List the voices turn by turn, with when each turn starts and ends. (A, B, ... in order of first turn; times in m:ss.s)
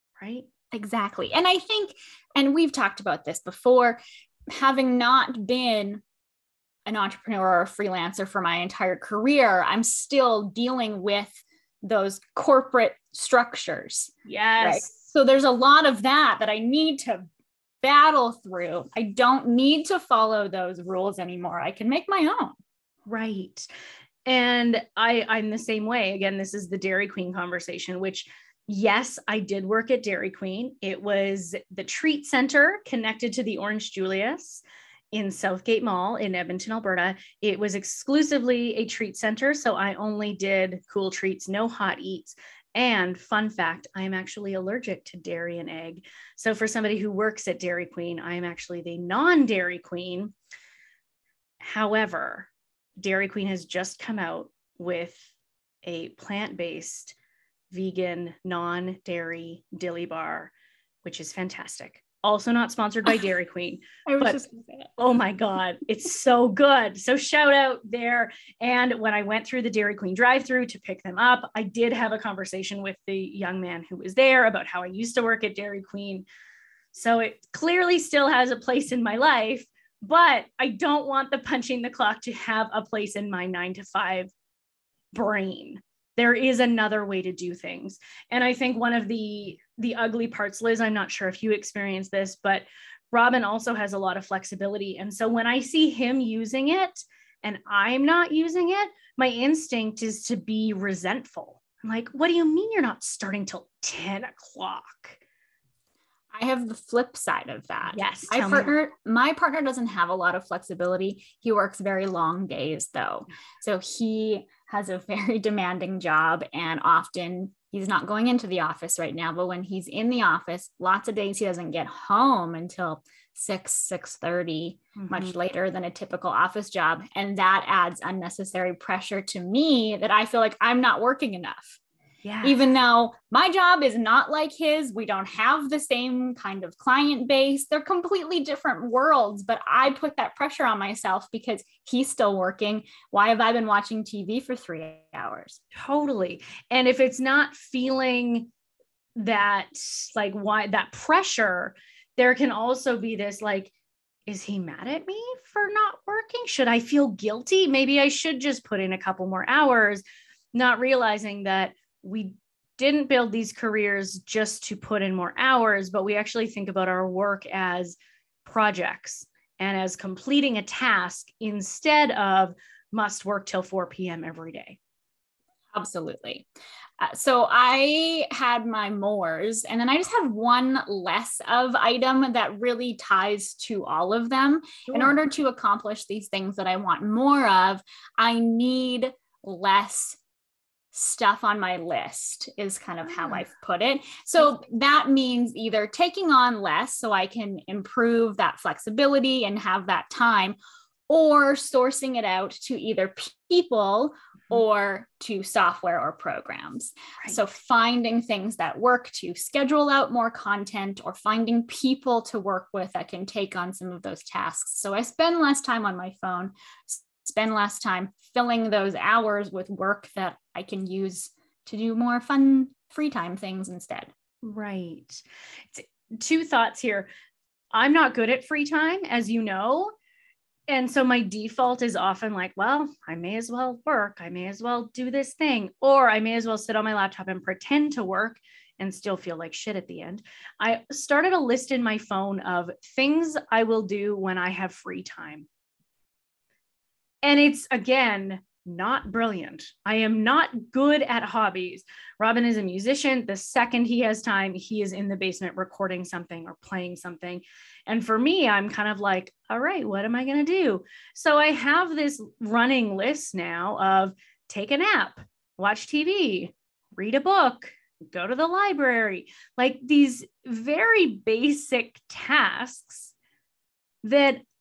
0:00.2-0:00.5 A
0:00.7-0:06.0 B
0:06.9-0:17.2 B
0:14.2-0:14.9 A
0:17.8-0:22.6 B
0:23.1-0:23.7 A
0:24.2-0:50.3 A
0:51.6-0:55.2 A
0:55.8-0:57.1 A
0:57.7-1:00.5 A
1:01.0-1:04.4 A
1:04.0-1:04.9 B
1:05.0-1:16.2 A
1:16.9-1:24.3 A
1:25.1-1:45.2 A
1:46.3-2:11.8 B
1:47.9-1:48.7 A
2:05.0-2:05.3 A
2:12.2-2:12.6 A
2:12.4-2:25.6 B
2:25.7-2:28.5 A
2:29.2-2:33.7 A
2:34.3-2:40.0 A
2:40.5-2:54.8 A
2:55.7-2:56.5 B
2:57.0-3:10.2 B
3:04.9-3:05.2 A
3:10.9-3:20.6 B
3:13.2-3:13.4 A
3:21.1-3:44.1 B
3:44.4-3:47.1 A
3:47.7-3:49.9 A
3:50.7-4:05.5 A
4:07.2-4:33.1 A
4:34.0-4:34.4 A